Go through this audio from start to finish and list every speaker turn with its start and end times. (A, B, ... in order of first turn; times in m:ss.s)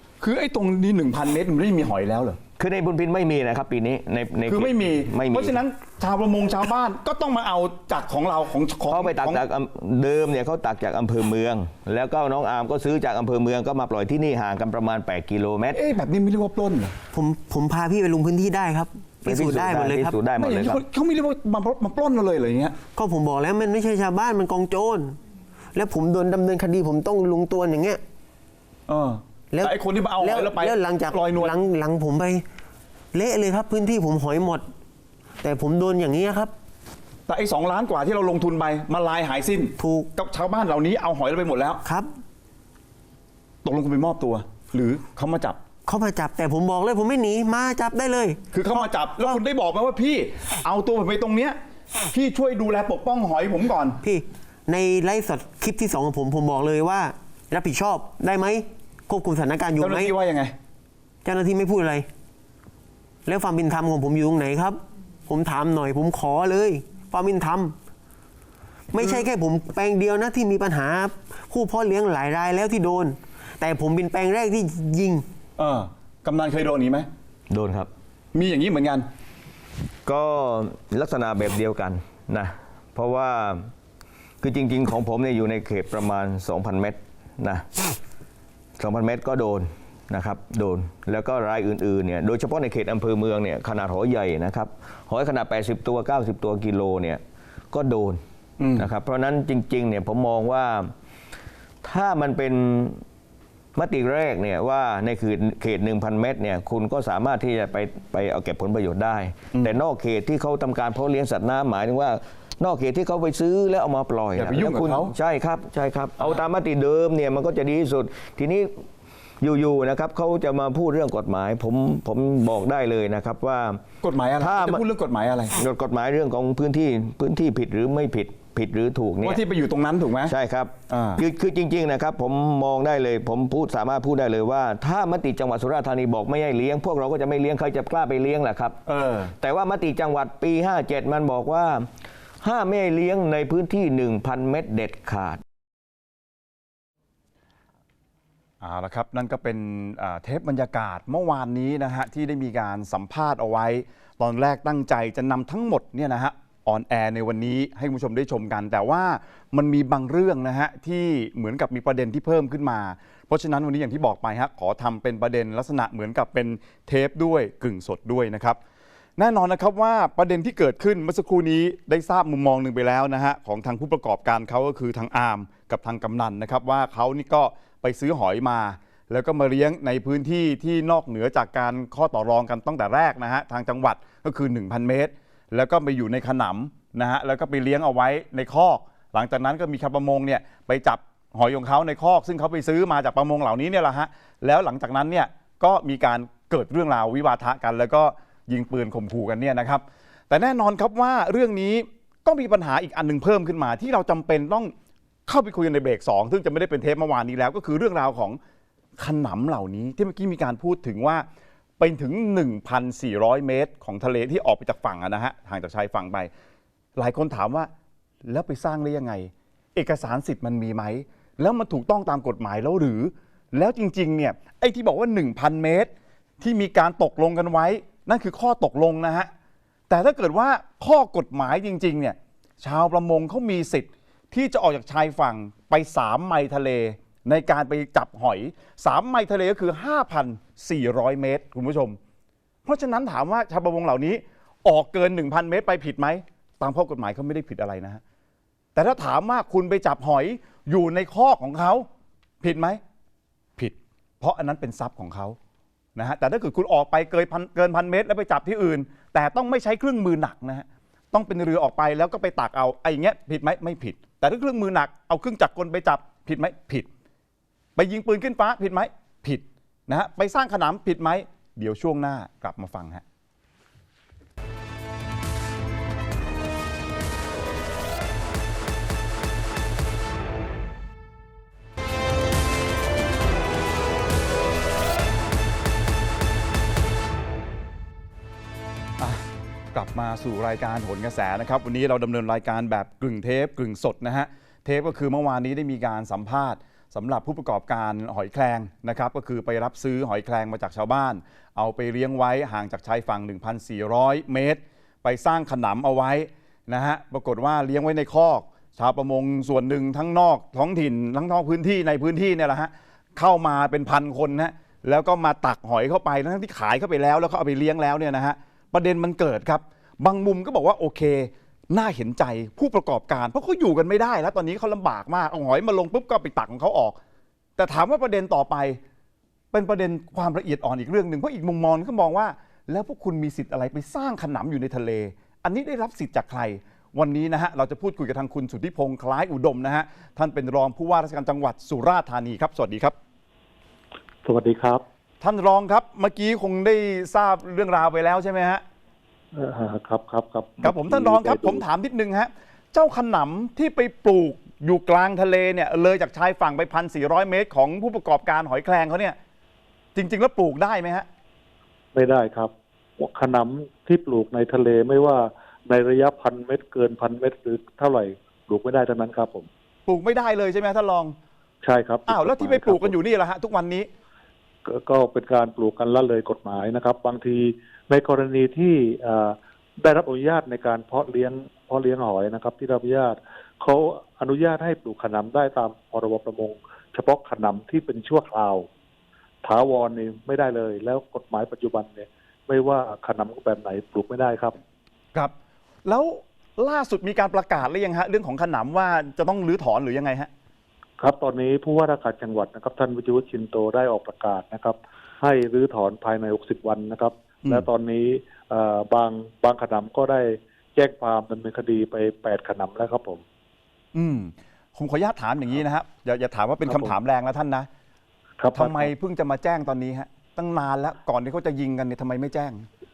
0:00.2-0:02.4 A
0:02.6-0:05.6 B
0:04.5-0:09.4 A
0:08.9-0:15.8 B
0:15.7-0:17.0 A
0:17.1-0:20.2 C
0:19.3-0:20.8 B
0:20.4-0:22.8 A
0:23.0-0:25.2 C
0:25.8-0:28.0 C
0:28.9-0:31.5 A
0:29.5-0:32.4 C
0:33.1-0:34.7 C
0:35.4-0:36.5 C
0:37.3-0:41.8 A
0:39.8-0:40.1 C
0:41.8-0:42.1 C
0:43.6-0:45.6 A
0:45.9-0:49.4 C
0:48.5-0:51.6 A
0:52.1-0:54.0 A
0:54.0-1:00.1 C
0:59.8-1:00.5 A
1:01.2-1:02.1 C
1:03.3-1:07.8 C
1:08.9-1:15.2 C
1:15.6-1:17.1 A
1:17.5-1:17.9 B
1:18.3-1:19.1 A
1:20.0-1:23.7 B
1:24.4-1:27.7 B
1:28.8-1:38.2 B
1:38.6-1:38.9 A
1:38.8-1:40.9 B
1:41.8-1:43.0 B
1:43.8-1:58.8 B
1:54.4-1:55.1 A
1:59.4-2:03.8 B
2:04.0-2:05.6 A
2:04.4-2:04.8 B
2:05.6-2:09.4 B
2:09.2-2:10.4 A
2:10.3-2:18.8 B
2:10.9-2:11.2 A
2:18.9-2:19.3 A
2:19.4-2:21.9 B
2:22.4-2:25.4 B
2:28.6-2:48.6 A
2:49.2-3:24.7 A
3:25.3-3:28.4 A
3:29.0-3:31.3 A
3:31.8-3:36.3 A
3:37.0-3:37.7 A
3:38.3-3:49.3 A
3:49.9-4:02.0 A
4:02.6-4:08.0 A
4:08.8-4:11.9 A
4:12.4-4:12.8 A
4:13.6-4:15.4 A
4:16.0-4:26.9 A
4:27.8-4:33.0 A
4:49.0-5:27.0 A
5:27.6-5:28.8 A
5:29.5-5:43.0 A
5:44.2-5:44.8 D
5:45.2-5:48.6 A
5:49.3-5:51.6 D
5:50.6-5:59.2 A
6:00.0-6:01.1 A
6:01.9-6:09.5 D
6:09.9-6:11.2 A
6:11.6-6:13.0 D
6:12.1-6:13.9 A
6:14.6-6:28.7 D
6:29.4-6:34.6 D
6:35.8-6:40.3 A
6:41.0-6:53.2 D
6:53.9-6:57.7 A
6:56.7-6:57.0 D
6:58.4-6:58.9 D
6:58.6-7:02.7 A